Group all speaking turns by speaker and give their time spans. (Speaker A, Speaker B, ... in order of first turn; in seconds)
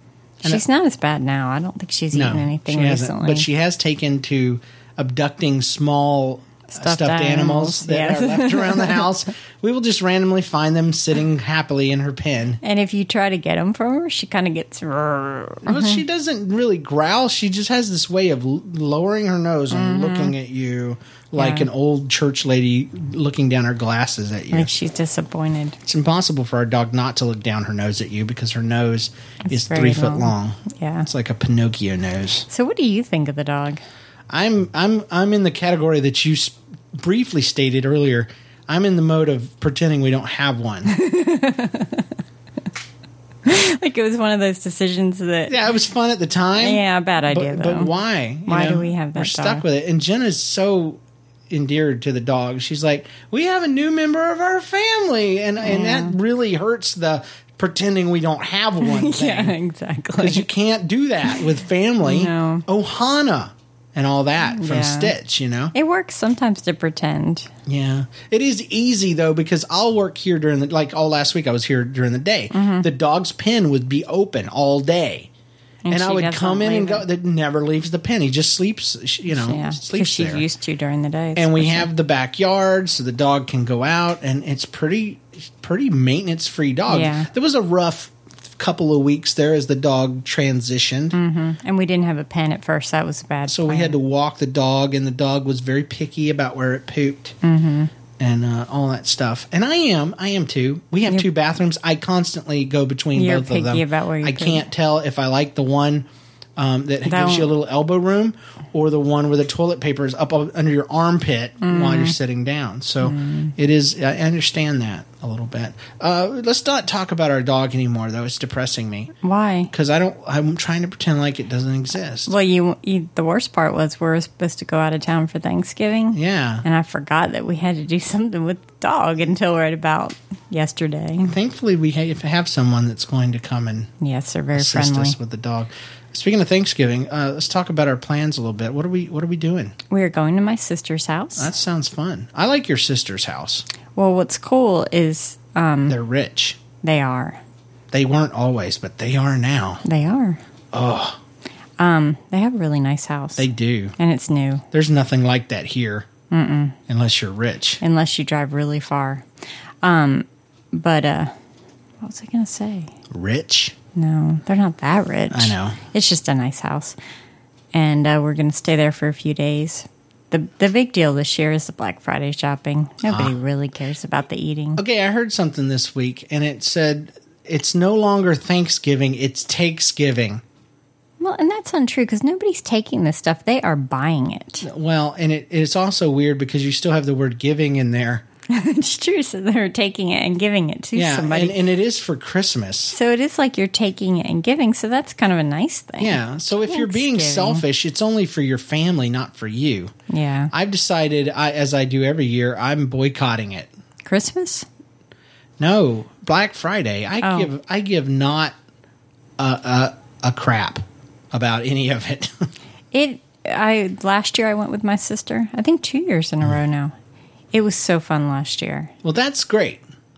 Speaker A: 0.4-3.5, 6.7-9.2, 12.6-16.0, 19.7-20.4, 21.4-21.7, 24.5-25.8, 29.5-31.1, 32.5-33.8, 40.9-42.2, 43.5-45.6, 46.6-47.9, 48.5-49.6, 55.6-56.2, 58.8-60.5, 62.0-62.6, 64.4-65.2, 65.7-67.5, 72.5-72.9, 75.8-77.1, 79.3-81.9, 86.9-87.3, 91.1-94.0, 97.4-97.9, 103.2-104.7, 107.0-107.5, 111.6-112.2, 113.0-113.5, 119.2-119.7, 122.3-131.3, 134.0-135.2, 139.9-141.5, 143.9-146.0, 146.8-147.4, 149.8-150.4, 151.8-154.7, 156.3-156.8, 157.8-159.3, 159.8-161.3, 162.0-162.9, 163.9-167.0, 167.7-174.8, 181.2-184.7, 188.5-191.6, 192.9-197.7, 200.1-200.5, 204.0-204.7, 207.2-207.5, 212.9-216.9, 217.5-218.9
Speaker B: 2.1-12.6, 15.7-24.7, 25.9-32.5, 34.3-40.9, 45.5-59.5, 60.2-65.7, 67.7-75.3, 75.9-80.4, 81.4-91.2, 93.5-97.4, 98.2-106.1, 106.6-119.1, 119.7-122.3, 126.1-126.6, 131.2-133.9, 134.6-139.8, 141.4-143.7, 145.9-146.6, 147.9-149.8, 150.7-151.2, 153.4-154.0, 154.7-156.1, 156.9-157.8, 163.1-163.7, 165.3-165.8, 173.1-173.3, 174.8-180.4, 184.6-188.2, 190.9-192.9, 196.0-199.9, 200.5-203.7, 205.6-208.6, 209.4-212.5, 219.0-219.8